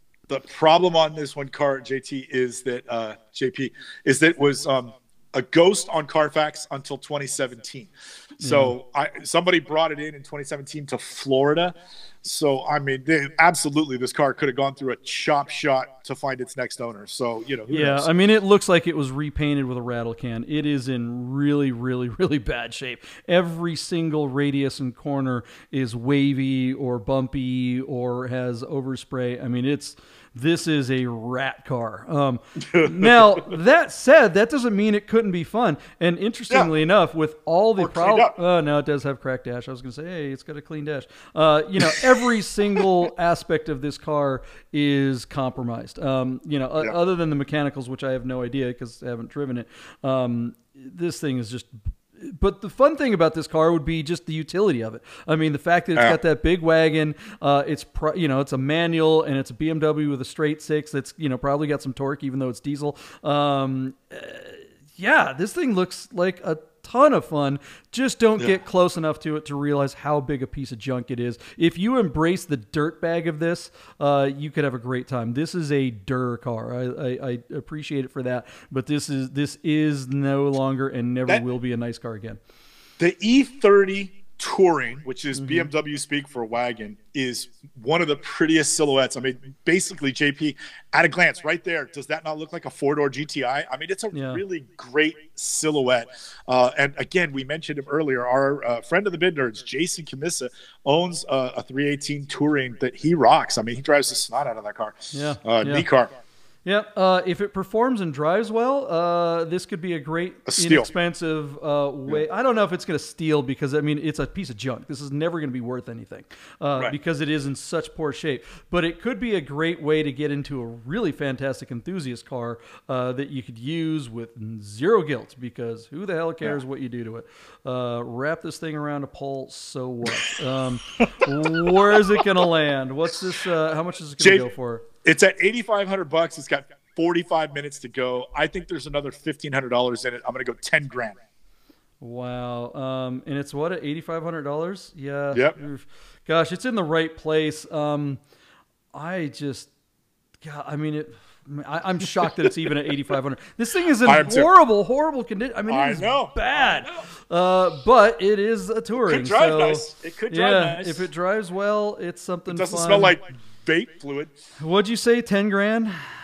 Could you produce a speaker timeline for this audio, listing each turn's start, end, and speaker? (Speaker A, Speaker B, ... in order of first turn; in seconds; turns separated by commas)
Speaker A: 0.3-18.1, Speaker B: 8.4-8.7, Speaker B: 17.7-82.4, Speaker A: 32.6-33.5, Speaker A: 37.8-38.4, Speaker A: 41.8-42.3, Speaker A: 83.0-106.1, Speaker B: 85.3-85.7, Speaker B: 94.1-94.4, Speaker B: 105.1-105.8, Speaker B: 106.6-134.8, Speaker A: 110.5-110.9, Speaker A: 131.0-132.5, Speaker A: 134.2-134.5, Speaker A: 135.1-141.2, Speaker B: 142.0-148.2, Speaker B: 148.9-149.7, Speaker B: 150.4-163.2, Speaker A: 154.0-154.5, Speaker A: 155.7-156.9, Speaker A: 159.1-161.1, Speaker A: 162.5-164.3, Speaker B: 164.6-166.1